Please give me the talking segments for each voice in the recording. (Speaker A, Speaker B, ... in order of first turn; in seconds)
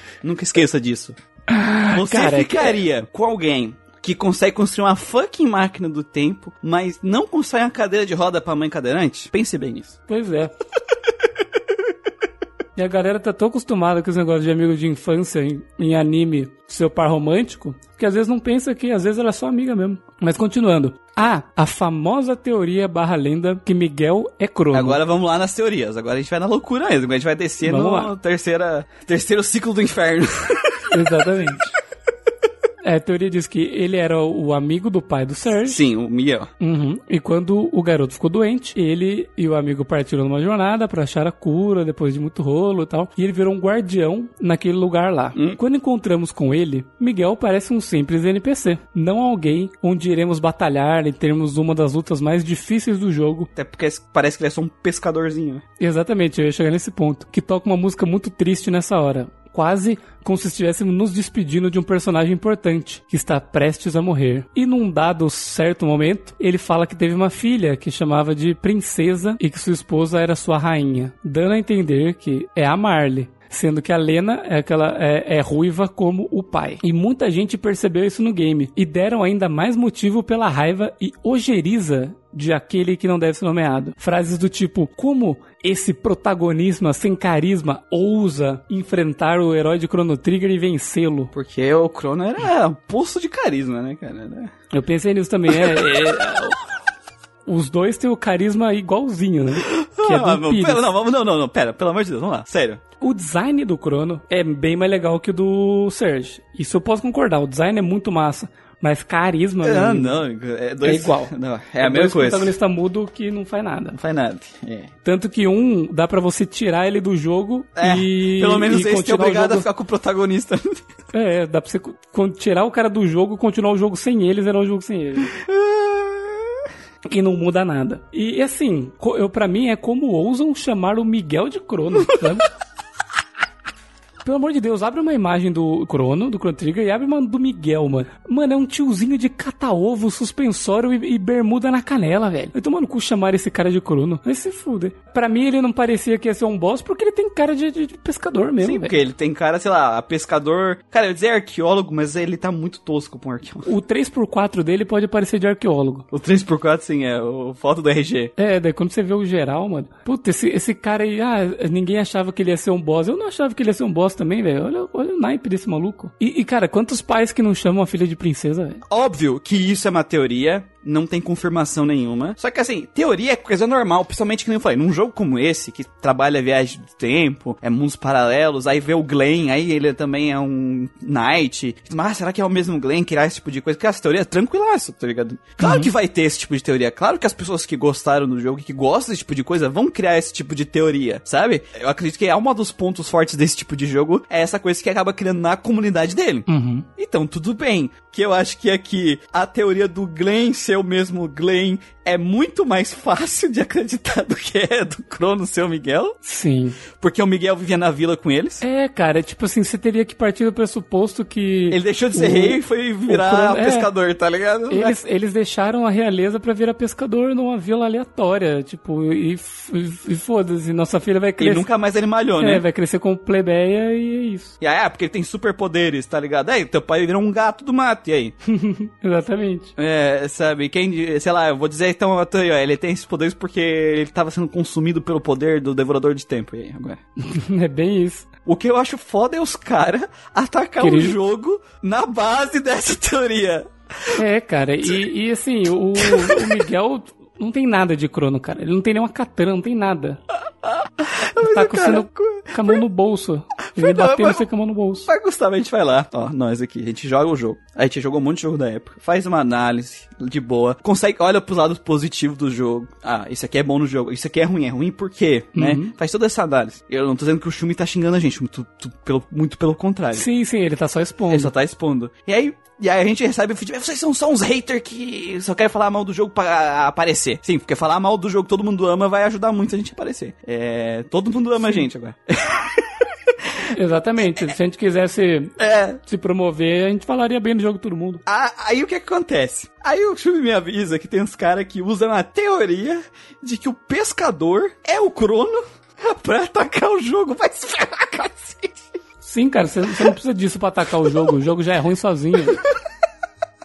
Speaker A: 0.2-1.1, 1.9-10.0, 24.7-31.0, 35.6-36.5, 53.6-55.6, 91.3-94.5, 95.5-96.5, 99.6-102.8, 109.6-112.5, 113.9-114.9, 117.8-120.8, 125.3-126.4, 148.6-153.7, 156.1-158.3, 168.9-196.5, 197.0-206.2, 206.9-208.6, 211.7-215.0, 221.4-222.6, 224.6-228.3, 229.8-237.0, 238.4-244.2, 246.0-246.7, 250.6-252.8, 253.7-254.4, 255.1-270.3, 271.3-283.7, 285.6-286.0, 288.3-298.8
Speaker B: 1.5-2.8, 10.1-10.5, 12.8-25.0, 27.6-28.1, 30.9-31.7, 32.8-35.8, 36.6-53.5, 55.8-91.3, 94.7-96.6, 97.5-100.8, 103.0-110.2, 110.8-114.0, 115.0-119.7, 121.1-125.3, 127.1-132.5, 134.2-148.9, 153.7-156.1, 158.4-168.8, 185.6-185.9, 196.5-196.9, 206.2-206.8, 208.6-213.9, 214.7-221.7, 222.4-224.6, 228.5-229.7, 237.2-238.3, 240.8-241.2, 244.2-250.2, 251.4-255.1, 265.6-265.9, 270.1-271.5, 283.7-288.2, 299.2-302.6